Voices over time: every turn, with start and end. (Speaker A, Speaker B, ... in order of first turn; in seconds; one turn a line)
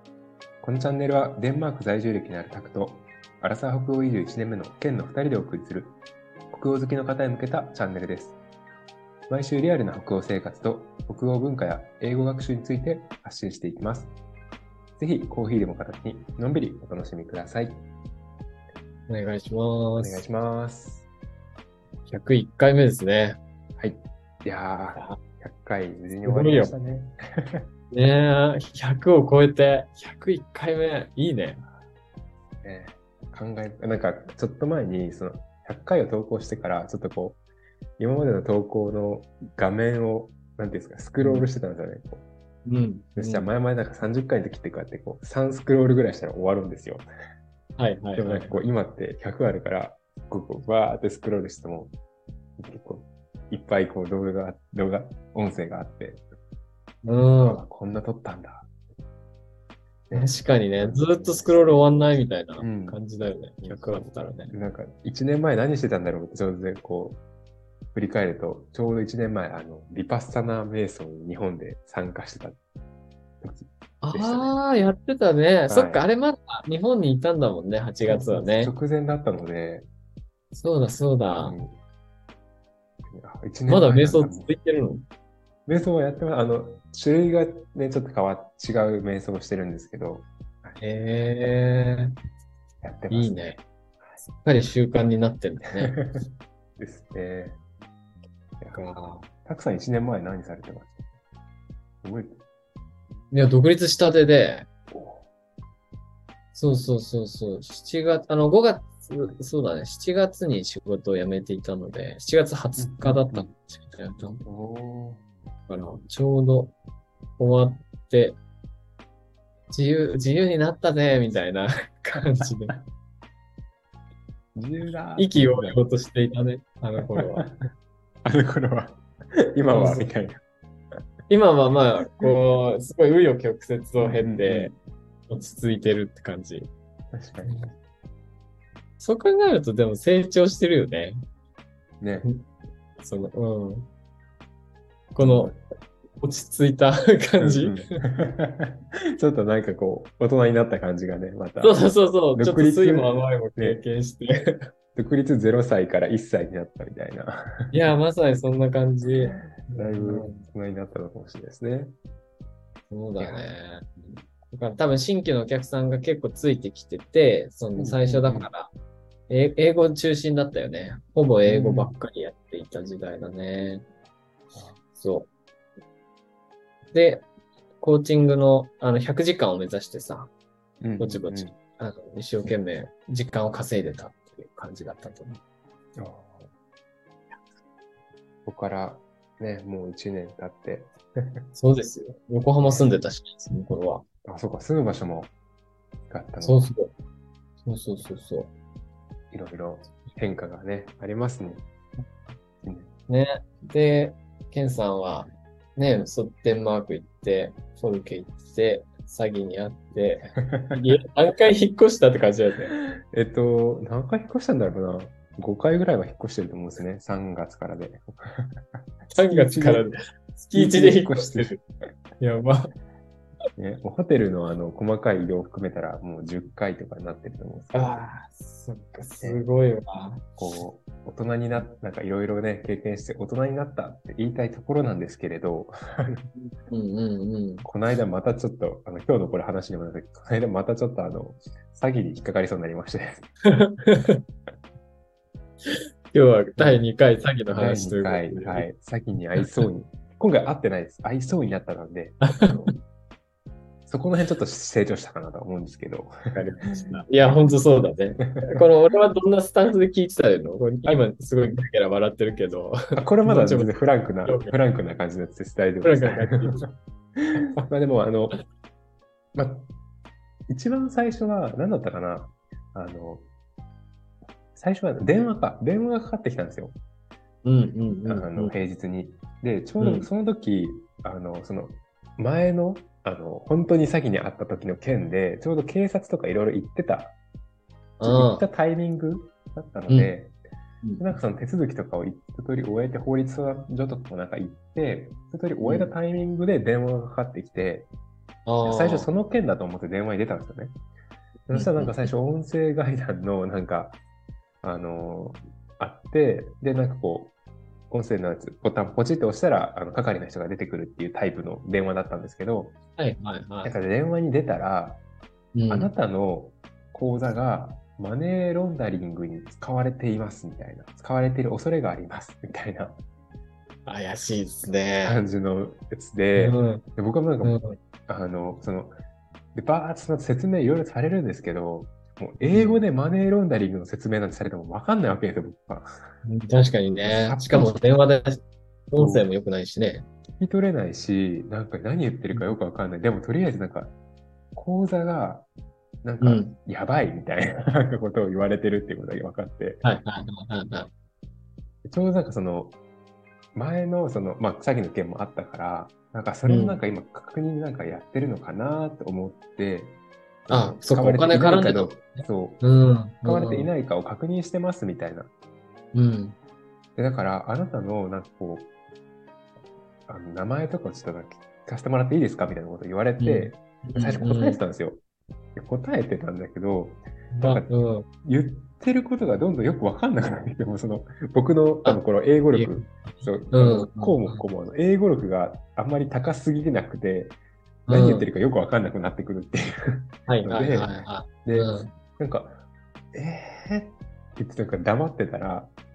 Speaker A: 0.6-6.0
Speaker A: 6.5-8.4
Speaker A: 9.3-14.1
Speaker A: 15.0-17.8
Speaker B: 19.1-20.2
Speaker A: 20.0-21.1
Speaker B: 22.1-23.4
Speaker A: 23.8-27.6
Speaker B: 26.2-26.7
Speaker B: 27.9-31.6
Speaker A: 32.6-37.4
Speaker A: 38.0-42.2
Speaker B: 41.2-41.5
Speaker B: 42.6-43.5
Speaker A: 43.1-47.1
Speaker B: 47.8-48.6
Speaker A: 48.1-51.9
Speaker A: 52.6-56.2
Speaker B: 57.0-57.6
Speaker A: 57.4-58.7
Speaker A: 60.1-63.0
Speaker B: 60.1-64.5
Speaker A: 63.6-67.2
Speaker A: 67.9-72.6
Speaker A: 73.4-74.5
Speaker B: 74.0-78.7
Speaker A: 75.7-76.0
Speaker A: 78.0-79.9
Speaker B: 80.5-81.6
Speaker A: 81.3-81.8
Speaker A: 83.1-84.5
Speaker B: 83.7-85.0
Speaker A: 85.7-90.8
Speaker B: 90.8-92.1
Speaker A: 92.8-94.2
Speaker B: 93.1-93.6
Speaker B: 94.3-95.9
Speaker A: 95.7-96.3
Speaker A: 96.8-97.6
Speaker A: 98.6-98.9
Speaker B: 98.7-99.3
Speaker A: 99.4-101.1
Speaker A: 102.0-102.4
Speaker B: 103.3-104.7
Speaker A: 104.9-105.2
Speaker B: 106.5-114.4
Speaker A: 112.8-113.5
Speaker A: 114.4-115.2
Speaker B: 115.7-116.7
Speaker B: 117.4-118.4
Speaker B: 119.7-122.7
Speaker A: 124.5-125.8
Speaker B: 125.2-127.4
Speaker A: 127.0-127.7
Speaker A: 128.2-129.0
Speaker A: 129.5-130.4
Speaker B: 129.7-130.1
Speaker B: 131.3-134.7
Speaker A: 134.0-134.7
Speaker B: 135.3-136.7
Speaker A: 137.1-137.7
Speaker B: 137.4-137.7
Speaker B: 139.0-141.2
Speaker A: 142.0-142.3
Speaker B: 143.0-143.9
Speaker B: 145.1-145.6
Speaker A: 145.2-145.6
Speaker B: 146.2-147.8
Speaker A: 147.4-153.8
Speaker B: 151.6-154.6
Speaker A: 154.9-157.8
Speaker B: 157.7-160.4
Speaker A: 159.1-161.9
Speaker B: 162.9-168.7
Speaker A: 163.2-163.4
Speaker A: 167.8-168.5
Speaker B: 169.3-173.8
Speaker A: 171.4-171.9
Speaker B: 174.9-175.3
Speaker B: 176.9-177.2
Speaker B: 177.8-180.3
Speaker A: 180.8-181.6
Speaker B: 181.0-185.4
Speaker A: 185.9-186.5
Speaker A: 188.4-191.4
Speaker B: 191.5-194.0
Speaker A: 192.6-192.9
Speaker A: 194.2-195.3
Speaker A: 196.1-196.6
Speaker B: 196.4-196.9
Speaker B: 197.6-198.5
Speaker A: 199.3-201.6
Speaker A: 202.6-202.9
Speaker B: 203.1-212.7
Speaker A: 210.5-210.8
Speaker A: 212.7-218.8
Speaker B: 219.1-221.6
Speaker A: 219.3-219.9
Speaker A: 220.5-221.6
Speaker B: 222.2-222.7
Speaker A: 223.6-228.0
Speaker B: 227.7-230.4
Speaker A: 230.4-236.3
Speaker B: 236.3-237.7
Speaker A: 237.6-243.3
Speaker B: 243.5-244.2
Speaker B: 246.1-248.7
Speaker A: 246.6-246.8
Speaker A: 247.5-252.8
Speaker B: 252.2-252.5
Speaker A: 253.9-257.3
Speaker B: 256.3-264.5
Speaker A: 258.2-258.6
Speaker A: 262.9-268.4
Speaker B: 265.8-266.6
Speaker A: 269.3-269.7
Speaker A: 270.5-273.2
Speaker A: 274.5-276.8
Speaker B: 277.4-278.5
Speaker A: 278.1-287.2
Speaker B: 279.8-280.1
Speaker B: 288.0-288.4
Speaker A: 288.0-290.3
Speaker A: 291.0-297.9
Speaker B: 295.6-295.9
Speaker B: 298.4-299.1
Speaker A: 298.6-300.8
Speaker A: 301.5-304.0
Speaker B: 301.5-302.1
Speaker A: 304.6-307.3
Speaker A: 307.9-312.8
Speaker B: 313.0-313.8
Speaker A: 313.6-315.0
Speaker B: 315.5-315.9
Speaker A: 315.7-323.0
Speaker B: 323.9-325.2
Speaker A: 325.0-329.0
Speaker B: 326.4-326.8
Speaker B: 327.4-327.8
Speaker A: 329.5-335.9
Speaker B: 332.4-332.8
Speaker B: 336.2-340.1
Speaker A: 337.0-338.0
Speaker A: 338.9-339.2
Speaker A: 340.4-343.9
Speaker A: 344.5-345.5
Speaker A: 346.0-349.8
Speaker B: 346.2-346.5
Speaker B: 349.8-350.9
Speaker A: 351.8-352.8
Speaker A: 353.5-362.6
Speaker B: 356.4-356.8
Speaker B: 360.5-363.7
Speaker A: 363.2-365.3
Speaker B: 365.9-366.4
Speaker A: 366.9-368.7
Speaker A: 370.1-375.0
Speaker B: 373.2-374.6
Speaker A: 375.5-387.4
Speaker B: 377.3-378.1
Speaker B: 381.8-382.9
Speaker B: 383.5-384.4
Speaker B: 387.9-388.3
Speaker A: 387.9-395.7
Speaker B: 390.3-391.9